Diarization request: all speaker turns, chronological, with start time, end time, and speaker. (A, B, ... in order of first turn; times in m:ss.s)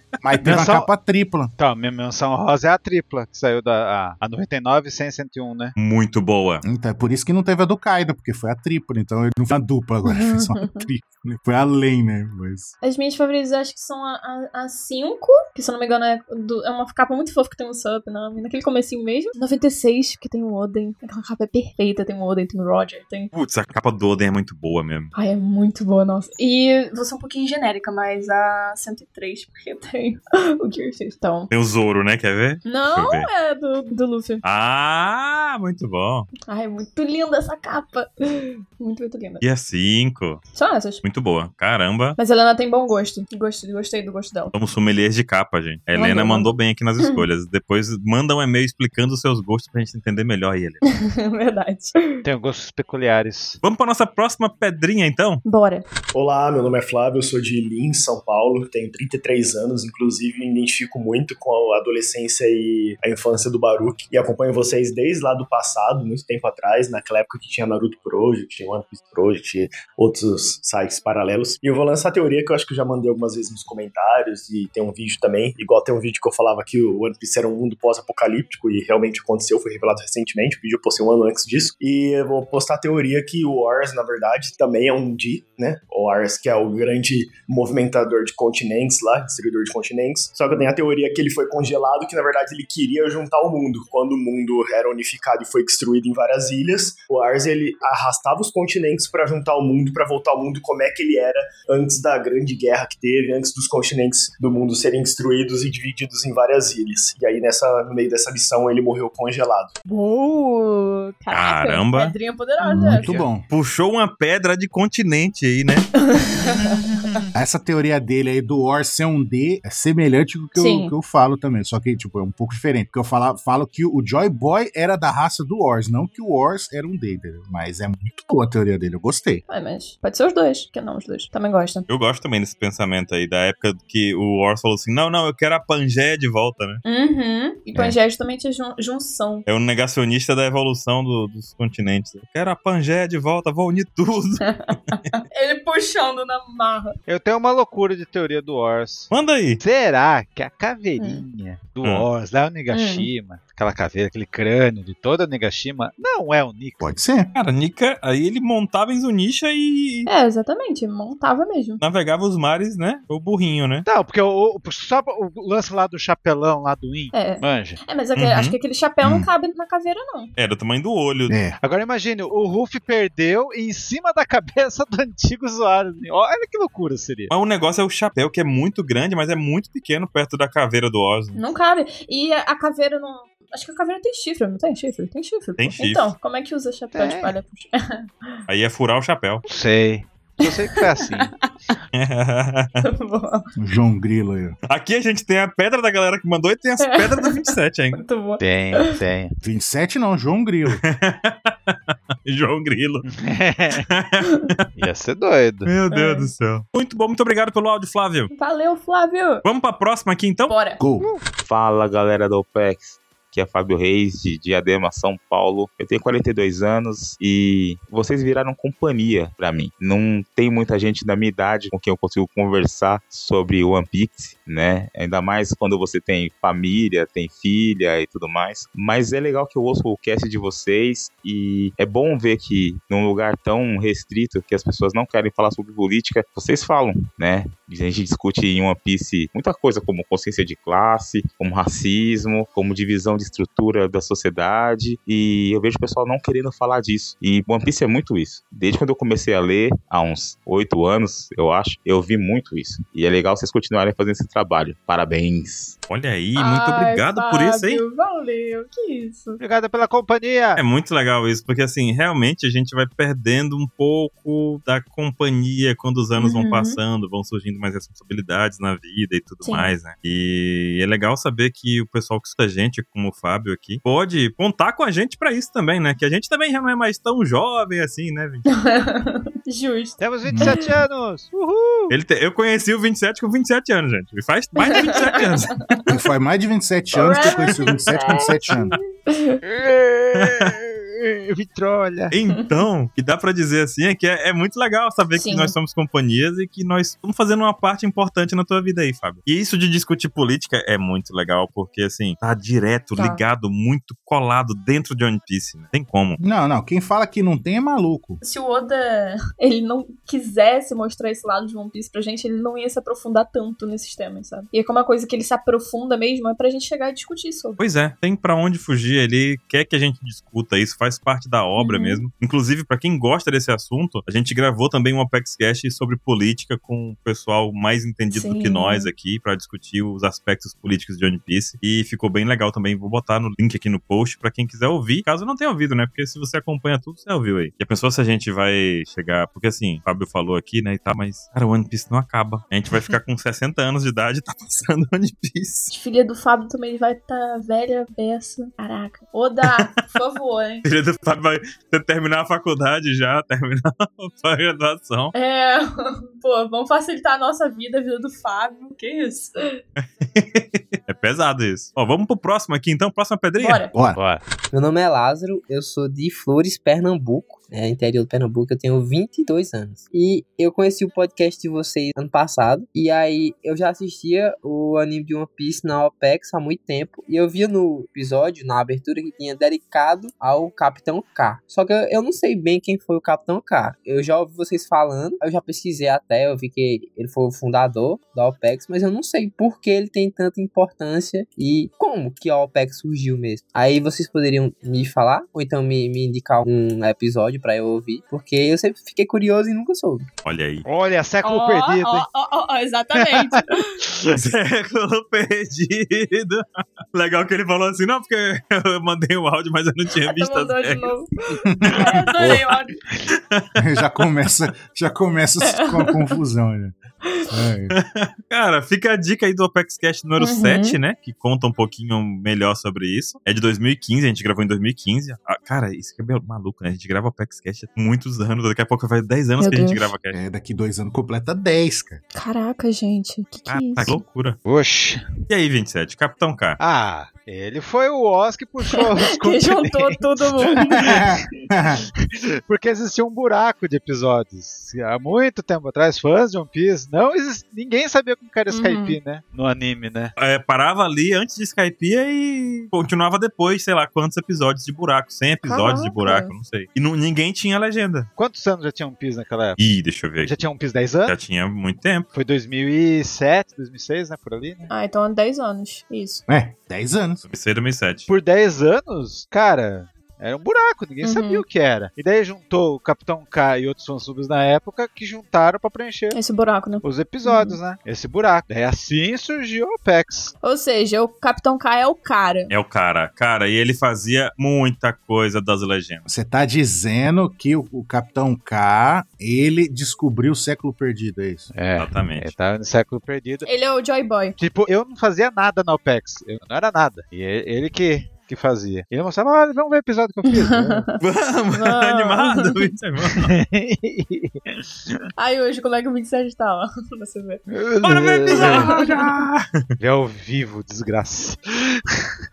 0:00.2-0:01.5 A
0:00.4-0:00.9 B
0:01.6-0:05.8 B
0:05.8-0:06.6 C
0:06.6-0:12.7 A
0:10.1-0:10.8 D
0:12.8-0:23.3 D
0:23.3-0:25.1 C
0:25.2-0:31.5 D
0:31.5-0:33.3 C
0:32.6-0:34.4 D
0:34.4-0:36.3 C
0:36.5-0:39.4 D
0:39.4-0:40.4 C
0:40.5-0:41.0 D
0:41.0-0:42.2 C
0:42.2-0:44.5 D
0:44.5-0:50.8 C
0:46.0-0:47.2 D
0:51.0-0:52.2 D
0:52.2-0:53.6 B
0:53.6-0:55.4 C
0:55.4-0:55.9 D
0:56.1-1:49.8 E
1:49.9-1:53.1 D
1:51.3-1:52.2 C
1:52.6-1:53.4 A
1:53.5-1:55.9 C
1:56.1-1:56.8 D
1:56.6-1:57.3 B
1:57.4-2:09.4 A
2:00.6-2:00.9 D
2:09.5-2:11.9 D
2:11.9-2:16.8 C
2:16.8-2:19.5 D
2:19.5-2:24.4 C
2:24.4-2:27.0 D
2:27.1-2:36.9 B
2:29.1-2:29.6 C
2:31.0-2:31.2 D
2:32.7-2:33.1 D
2:36.8-2:37.3 A
2:37.3-2:40.1 C
2:40.1-2:41.8 D
2:41.8-2:43.9 C
2:43.9-2:47.8 B
2:47.1-2:50.3 D
2:48.2-2:48.6 C
2:49.0-2:49.3 A
2:50.4-2:51.4 C
2:51.3-2:51.6 A
2:51.6-2:57.3 B
2:57.3-3:01.4 C
3:01.4-3:08.4 D
3:05.6-3:06.1 C
3:06.9-3:07.4 B
3:08.5-3:09.4 C
3:09.5-3:11.3 B
3:10.4-3:11.3 D
3:11.9-3:12.8 C
3:12.8-3:13.5 D
3:13.6-3:14.6 A
3:14.7-3:18.0 C
3:16.8-3:18.9 D
3:18.4-3:19.3 B
3:19.4-3:20.8 A
3:20.8-3:23.0 C
3:23.0-3:23.9 B
3:23.8-3:24.6 C
3:24.8-3:25.7 B
3:25.7-3:28.3 C
3:25.9-3:26.3 D
3:28.3-3:29.4 D
3:29.4-3:30.5 C
3:30.5-3:30.8 D
3:30.8-3:31.1 A
3:31.4-4:15.8 F
4:15.9-4:17.8 C
4:16.4-4:19.4 D
4:19.4-4:20.6 B
4:20.6-4:38.5 C
4:26.2-4:26.8 D
4:29.4-4:29.7 D
4:38.5-4:40.7 D
4:40.0-4:42.0 B
4:41.9-4:45.5 C
4:44.6-4:45.4 D
4:45.9-4:48.8 A
4:47.0-4:49.4 D
4:49.4-4:52.1 B
4:50.2-4:50.5 C
4:52.1-5:06.2 C
4:55.2-4:55.5 D
5:03.0-5:03.2 D
5:06.2-5:08.2 A
5:08.2-5:17.6 D
5:17.6-5:45.7 C
5:21.6-5:22.0 D
5:28.1-5:28.9 D
5:45.7-5:50.7 D
5:49.4-5:49.7 C
5:50.6-5:55.1 C
5:55.1-5:59.6 D
5:59.8-6:03.6 C
6:03.4-6:03.7 D
6:03.7-6:04.0 A
6:04.0-6:04.2 B
6:04.5-6:40.1 G
6:40.2-6:40.6 C
6:40.7-6:42.1 B
6:41.2-6:43.8 D
6:42.9-6:44.2 B
6:44.1-6:50.9 C
6:50.0-6:51.1 D
6:51.5-6:51.9 A
6:51.7-6:52.8 D
6:52.2-6:53.0 B
6:53.1-6:53.4 C
6:53.6-6:56.8 A
6:55.5-6:55.9 D
6:57.3-6:57.8 A
6:57.8-7:10.2 C
7:00.2-7:00.8 D
7:09.4-7:09.9 D
7:10.1-7:12.0 A
7:12.1-7:14.0 D
7:13.5-7:14.4 C
7:14.5-7:15.0 B
7:15.3-7:16.6 C
7:16.6-7:21.1 B
7:18.7-7:21.0 D
7:20.8-7:21.8 A
7:22.0-7:30.1 B
7:28.5-7:29.0 D
7:30.2-7:38.1 C
7:35.4-7:36.3 D
7:38.2-7:39.6 B
7:39.6-7:40.4 C
7:40.2-7:41.1 B
7:41.1-7:42.1 C
7:42.1-7:44.7 B
7:44.7-7:46.2 D
7:46.3-7:47.2 A
7:47.3-7:48.1 C
7:48.1-7:56.2 B
7:51.0-7:51.4 D
7:56.1-7:57.6 D
7:56.8-8:00.3 B
8:00.4-8:02.5 D
8:02.5-8:06.0 C
8:06.1-8:11.5 A
8:11.5-8:13.5 B
8:11.8-8:12.3 C
8:13.4-8:14.4 D
8:14.4-8:20.9 B
8:20.3-8:20.9 D
8:21.0-8:23.3 C
8:21.5-8:22.6 D
8:23.2-8:25.0 B
8:25.2-8:27.4 D
8:27.5-8:28.8 B
8:27.8-8:29.7 C
8:28.3-8:28.9 D
8:29.8-8:32.0 B